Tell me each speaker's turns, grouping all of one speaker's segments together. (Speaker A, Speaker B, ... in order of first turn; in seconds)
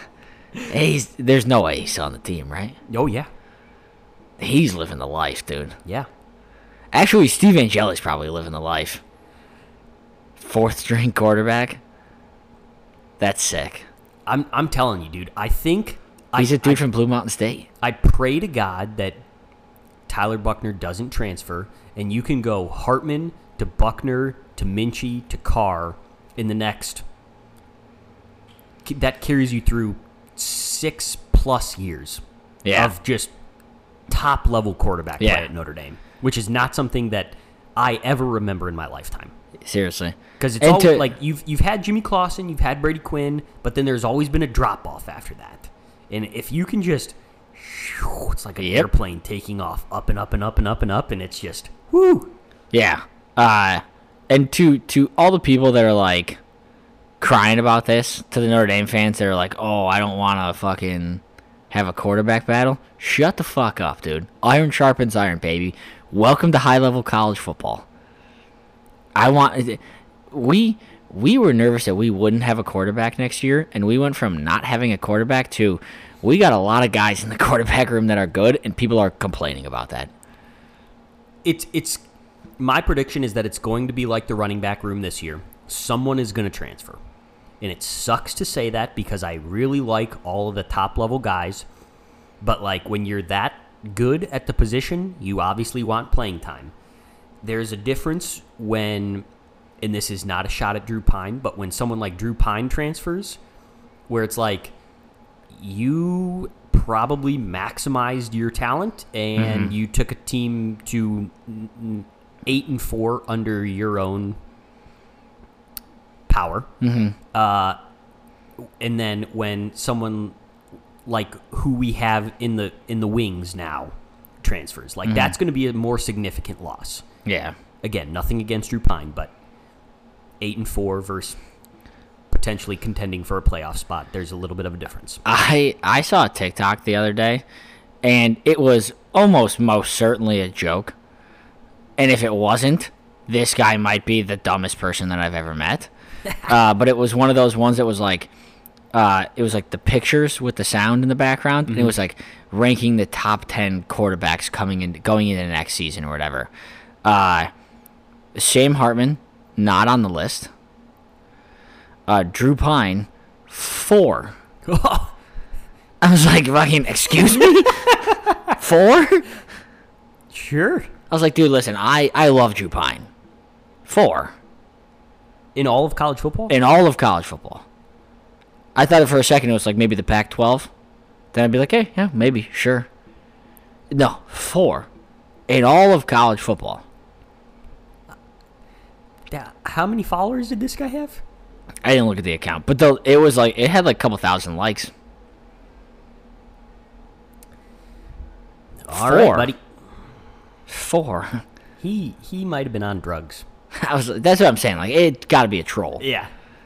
Speaker A: 0.7-2.8, 4.4-5.7, 6.9-9.0, 10.4-11.8, 13.2-13.9, 16.4-17.7, 32.6-32.9, 35.2-35.5, 39.6-41.1, 48.6-48.9, 52.7-56.4, 57.2-67.8, 69.1-80.1, 109.4-109.7, 116.8-117.2, 125.0-125.3, 127.2-127.5, 135.2-137.4, 138.0-140.9, 142.0-145.9, 146.4-148.3, 148.9-156.5, 157.0-157.5, 158.3-160.5, 162.1-164.3, 166.0-169.3, 171.1-173.1, 173.8-174.3, 176.5-177.6, 178.7-180.7, 181.3-182.9, 183.9-184.9, 185.5-186.8, 191.8-194.9, 198.9-199.5, 200.7-201.4, 203.7-206.0
Speaker B: 2.9-3.3, 14.3-16.8, 17.8-19.2, 20.1-27.0, 28.8-32.2, 32.7-33.3, 34.1-39.3, 40.4-52.3, 81.4-82.0, 82.6-87.0, 87.6-91.6, 92.4-96.7, 97.4-99.2, 99.8-103.4, 104.1-104.7, 105.5-114.4, 116.3-116.7, 117.3-117.8, 118.8-120.3, 121.0-127.0, 127.8-129.3, 130.4-131.4, 132.3-135.2, 151.7-151.9, 164.6-165.1, 170.3-170.9, 175.5-176.5, 189.3-191.2, 198.8-199.6, 201.8-203.4, 206.0-206.3